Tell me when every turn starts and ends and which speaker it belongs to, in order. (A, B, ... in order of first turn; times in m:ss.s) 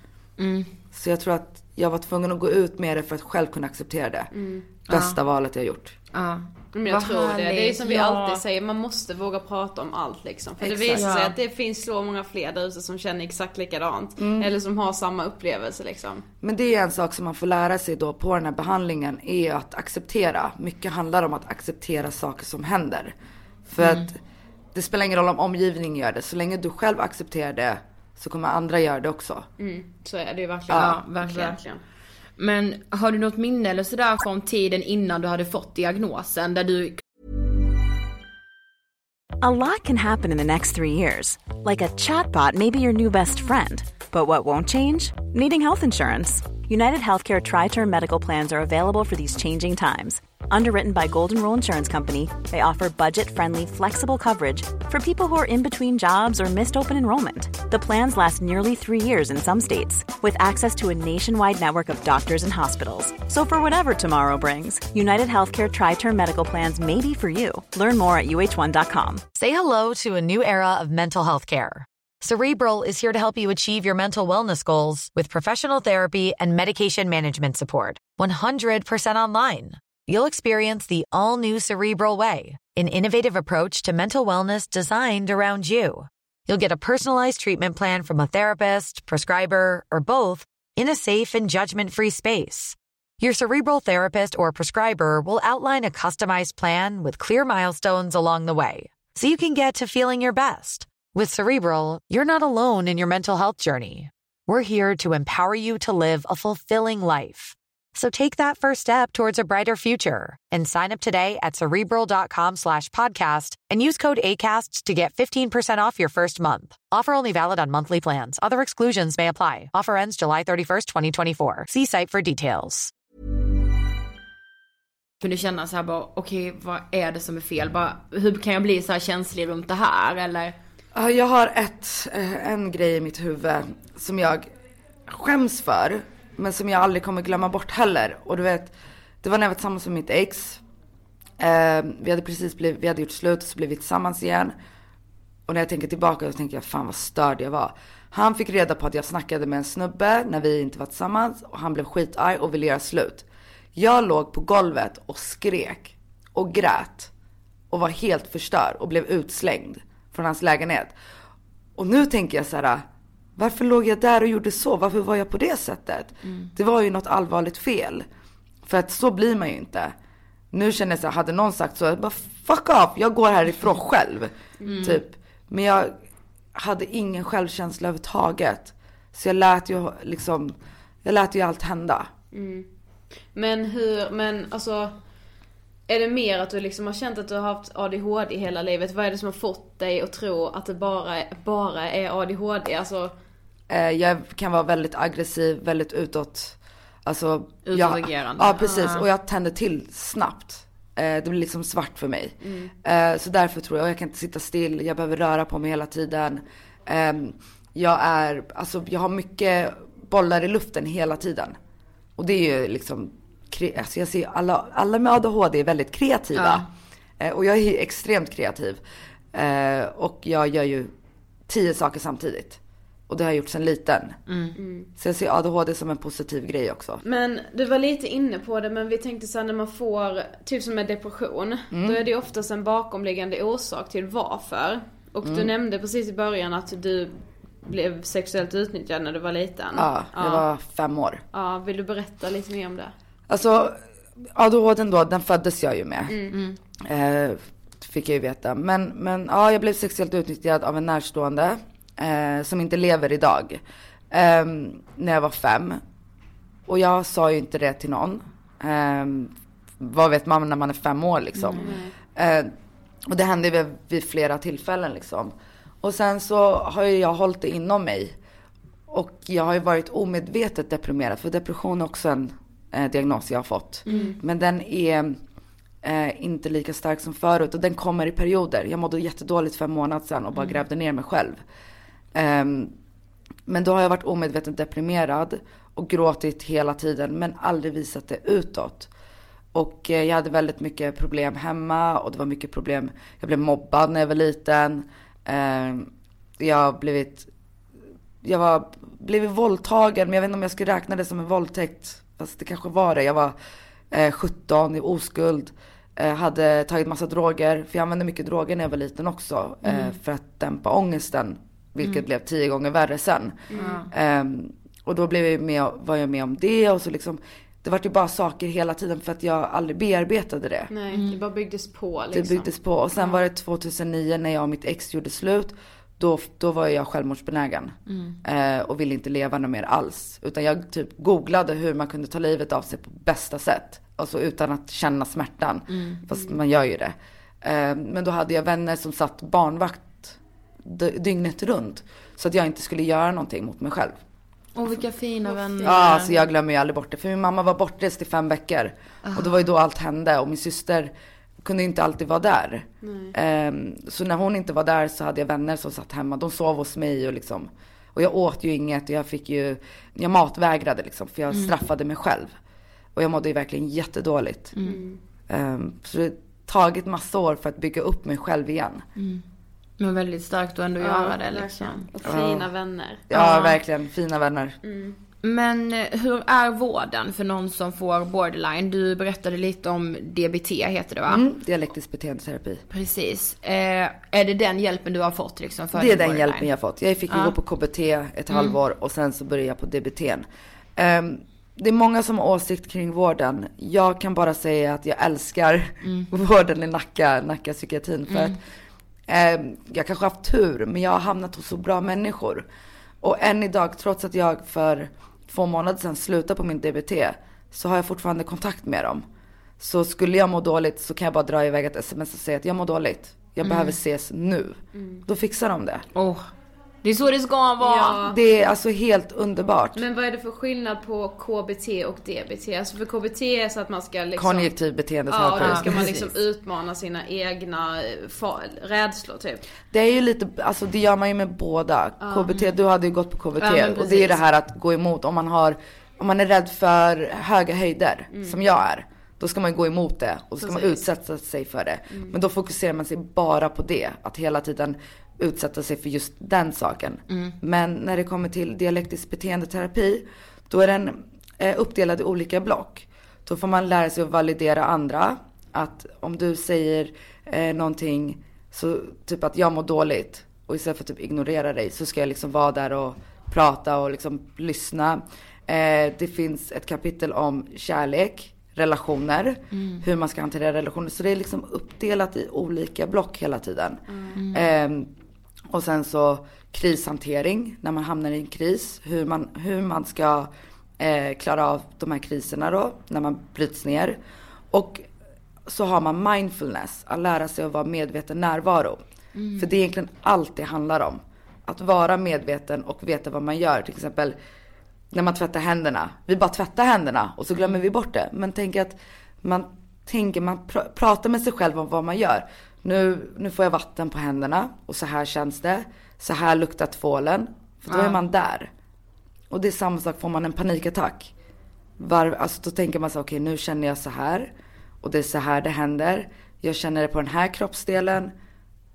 0:00.4-0:00.7 A
0:00.9-0:04.3 B
0:04.3-0:04.6 C
0:04.9-0:06.0 B
0:04.9-0:05.2 A
0:06.1-0:08.4 A
0:06.7-0:16.2 C
0:10.6-0:11.1 B
0:10.9-0:11.4 A
0:14.2-0:14.5 B
0:16.4-0:23.1 B
0:23.7-0:24.2 B
0:23.8-0:24.1 A
0:24.7-0:29.4 B
0:29.6-0:31.8 C
0:30.7-0:31.6 A
0:32.4-0:37.0 A
0:39.4-1:09.2 D
1:09.3-2:02.9 E
2:05.2-2:10.5 A
2:10.9-2:14.4 B
2:15.1-2:20.6 B
2:21.4-2:24.5 B
2:25.5-2:37.1 B
2:37.7-2:40.9 B
2:41.8-2:42.8 B
2:43.4-2:48.0 B
2:48.6-2:49.9 B
2:50.5-2:55.9 B
2:54.6-2:54.9 C
2:54.6-2:55.0 A
2:56.5-3:02.1 B
3:02.3-3:02.7 C
3:03.3-3:05.0 C
3:05.9-3:13.1 C
3:13.7-3:31.6 B
3:17.6-3:19.0 A
3:22.4-3:22.7 C
3:32.2-3:36.6 B
3:36.3-3:36.7 A
3:37.2-3:38.8 B
3:39.3-3:40.9 B
3:41.5-3:44.2 B
3:44.3-3:44.5 A
3:44.6-3:44.9 C
3:45.0-3:47.0 B
3:47.0-3:57.1 C
3:51.7-3:52.0 B
3:55.2-3:55.5 B
3:57.6-4:00.4 C
3:59.7-4:01.2 B
4:01.3-4:02.9 C
4:03.3-4:06.2 B
4:06.1-4:06.4 C
4:06.8-4:15.8 B
4:16.7-4:22.5 B
4:21.4-4:21.7 A
4:21.6-4:21.9 C
4:23.0-4:28.2 B
4:28.9-4:35.2 B
4:33.9-4:34.2 A
4:33.9-4:34.2 C
4:35.8-4:41.4 B
4:42.1-4:42.7 B
4:43.5-4:48.9 B
4:49.5-4:57.3 B
4:58.2-5:03.3 B
5:03.9-5:20.7 B
5:09.6-5:09.9 A
5:13.5-5:13.8 C
5:13.6-5:13.9 A
5:20.7-5:23.2 C
5:20.9-5:21.2 A
5:22.1-5:44.0 B
5:27.9-5:28.2 A
5:35.7-5:36.0 A
5:44.6-5:46.3 A
5:45.3-5:45.8 C
5:45.6-5:50.9 B
5:49.0-5:49.3 A
5:51.4-6:02.3 B
5:52.8-5:53.1 C
6:02.9-6:04.5 B
6:04.6-6:05.0 C
6:05.3-6:08.8 B
6:09.0-6:09.2 A
6:09.8-6:11.8 A
6:10.8-6:13.0 C
6:12.0-6:12.5 B
6:13.1-6:14.6 B
6:13.1-6:13.6 A
6:14.6-6:15.0 C
6:15.2-6:21.2 A
6:21.1-6:22.6 B
6:22.7-6:26.5 A
6:25.7-6:38.4 B
6:27.1-6:27.4 A
6:28.3-6:28.6 A
6:38.1-6:38.4 A
6:39.1-6:42.4 B
6:43.0-6:49.0 B
6:49.6-6:55.8 B
6:53.4-6:53.8 A
6:56.0-6:56.3 A
6:56.8-6:58.0 A
6:57.6-6:58.2 C
6:58.0-6:59.8 B
6:59.7-7:04.5 C
7:04.2-7:06.1 B
7:05.1-7:09.4 C
7:05.4-7:05.6 A
7:09.7-7:54.9 B
7:12.0-7:12.3 C
7:13.4-7:14.2 C
7:18.1-7:18.4 C
7:20.4-7:20.8 C
7:27.1-7:27.3 A
7:49.5-7:49.8 A
7:53.9-7:54.2 C
7:54.1-7:54.4 A
7:55.5-8:04.0 B
8:04.5-8:04.9 B
8:05.4-8:08.8 B
8:09.1-8:09.5 A
8:09.4-8:14.2 B
8:14.9-8:28.5 B
8:27.7-8:28.0 A
8:29.3-8:31.1 B
8:31.8-8:38.1 B